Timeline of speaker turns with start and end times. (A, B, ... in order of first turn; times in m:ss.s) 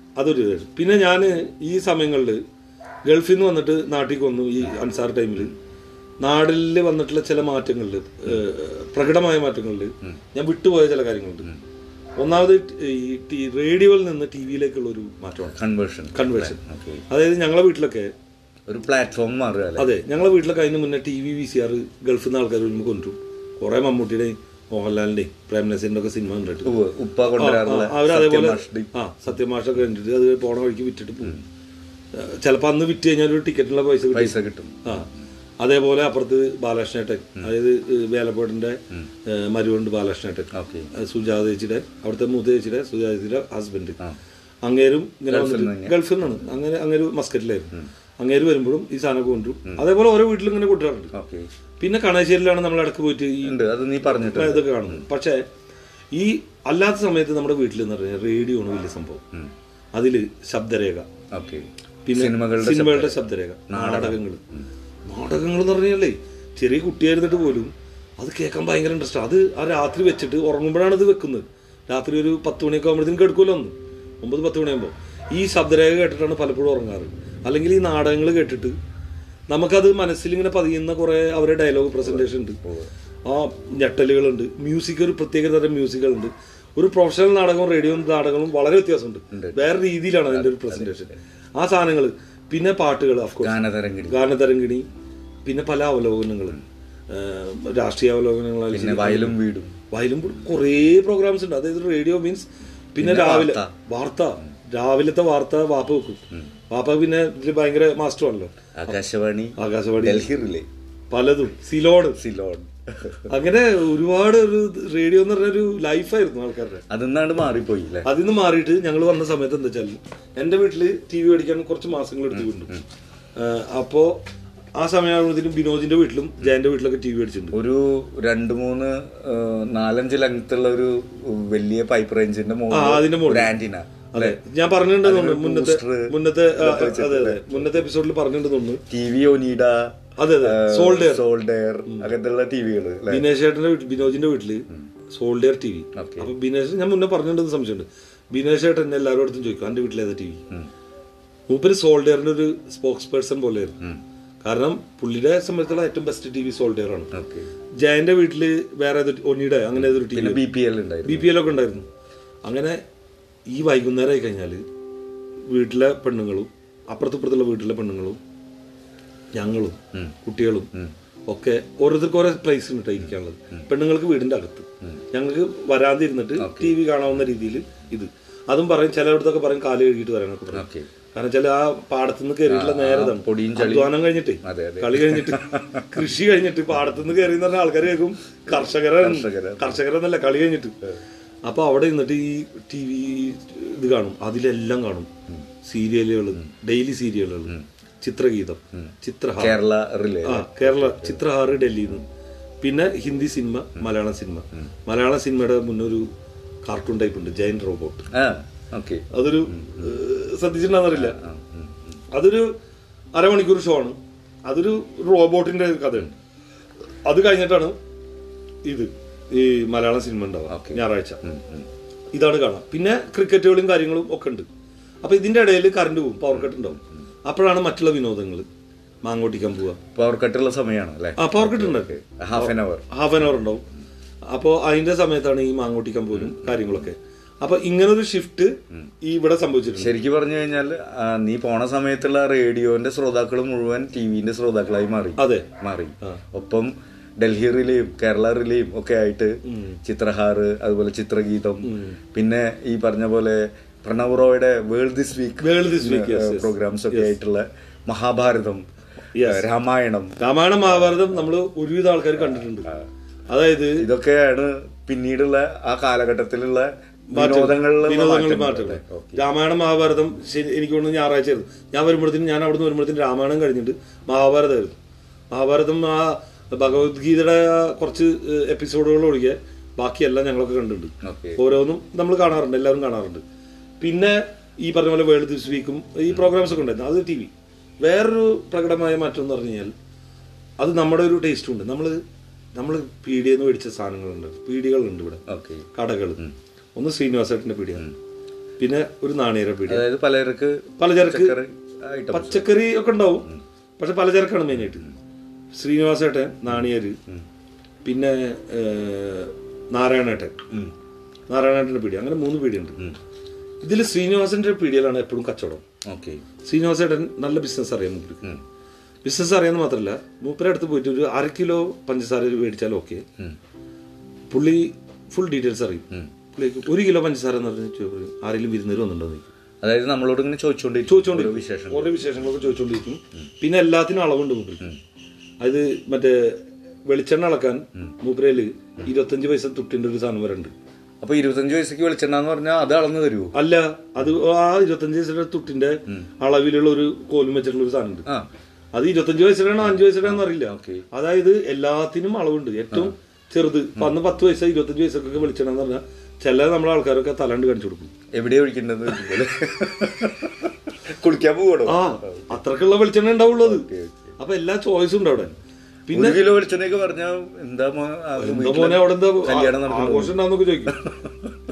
0:00.1-0:02.4 A
0:03.0-0:05.5 A
0:06.2-0:11.5 A
0:12.2-0:15.6 A
0:15.5-0:17.0 B
0:16.1-0:16.6 A
0:17.1-0:18.1 A
0:18.7-0:20.0 B
0:19.8-0:26.7 A
0:26.6-0:28.9 B
0:27.4-0:31.4 A
0:32.1-0:35.1 A
0:34.1-0:35.1 B
0:35.6-0:44.0 A
0:40.5-0:40.9 B
0:44.6-0:51.1 A
0:45.3-0:46.0 B
0:51.1-0:51.5 B
0:51.8-0:55.4 A
0:53.4-0:55.0 B
0:56.1-0:59.2 A
0:59.9-1:01.1 A
1:01.3-1:04.6 B
1:02.0-1:04.4 A
1:05.1-1:18.8 A
1:19.5-1:22.6 A
1:22.0-1:22.9 B
1:23.2-1:34.8 A
1:29.3-1:29.6 B
1:30.3-1:31.0 B
1:33.4-1:34.2 B
1:35.4-1:39.4 A
1:38.7-1:39.8 B
1:39.9-1:48.5 A
1:43.0-1:43.7 B
1:48.8-1:50.7 B
1:49.6-1:50.3 A
1:51.1-1:52.2 A
1:52.2-1:53.3 B
1:53.3-1:56.8 A
1:56.9-1:58.1 B
1:58.0-2:02.8 A
2:02.3-2:02.8 B
2:03.4-2:04.2 A
2:04.8-2:07.6 A
2:07.5-2:14.4 B
2:12.7-2:13.5 A
2:14.1-2:18.8 A
2:15.0-2:17.9 B
2:18.9-2:23.3 B
2:20.2-2:21.2 A
2:23.1-2:30.4 A
2:26.0-2:26.3 B
2:31.5-2:33.8 A
2:34.4-2:37.1 A
2:37.1-2:37.5 B
2:37.8-2:40.4 A
2:39.8-2:41.3 B
2:41.0-2:41.8 A
2:42.4-2:42.8 A
2:43.5-2:44.6 A
2:45.5-2:48.2 A
2:49.3-2:50.7 A
2:51.3-3:10.8 A
2:53.0-2:53.6 B
2:56.4-2:56.8 B
3:00.5-3:00.9 B
3:02.4-3:05.8 B
3:09.0-3:09.8 B
3:11.4-3:15.1 A
3:15.6-3:19.6 A
3:19.4-3:21.2 B
3:20.2-3:22.0 A
3:22.6-3:26.1 A
3:26.6-3:28.1 A
3:28.1-3:29.9 B
3:29.1-3:31.2 A
3:30.9-3:32.0 B
3:32.1-3:32.5 A
3:33.1-3:36.1 A
3:37.0-3:37.7 A
3:38.6-3:41.2 A
3:40.5-3:41.7 B
3:42.1-3:44.4 A
3:45.0-3:48.4 A
3:46.3-3:46.8 B
3:49.0-3:49.8 A
3:49.9-3:52.8 B
3:51.2-3:53.6 A
3:54.3-3:59.9 A
3:56.1-3:56.8 B
3:59.8-4:18.6 B
4:05.2-4:05.5 A
4:09.5-4:09.8 A
4:11.6-4:12.0 A
4:15.4-4:17.2 A
4:19.1-4:19.4 A
4:19.2-4:20.2 B
4:20.2-4:22.7 A
4:23.3-4:23.9 A
4:23.8-4:29.2 B
4:27.1-4:34.8 A
4:35.3-4:43.2 A
4:41.0-4:41.4 B
4:43.8-4:49.7 A
4:50.6-4:52.0 A
4:52.6-4:55.2 A
4:55.3-4:55.6 B
4:55.7-4:56.2 A
4:56.8-4:57.9 A
4:58.6-4:59.9 A
4:59.7-5:02.5 B
5:00.8-5:01.4 A
5:02.1-5:04.9 A
5:05.5-5:07.0 A
5:07.8-5:10.3 A
5:11.3-5:12.8 A
5:13.6-5:15.6 A
5:15.9-5:16.2 B
5:16.4-5:18.4 A
5:19.0-5:23.0 A
5:24.3-5:29.3 A
5:29.6-5:32.1 B
5:30.8-5:34.7 A
5:35.4-5:40.5 A
5:41.0-5:43.4 B
5:43.3-5:48.1 A
5:48.7-5:57.9 A
5:49.7-5:50.8 B
5:58.1-6:02.4 B
6:01.6-6:03.7 A
6:03.4-6:04.1 B
6:04.2-6:05.3 A
6:05.9-6:06.2 A
6:05.9-6:11.3 B
6:08.2-6:10.8 A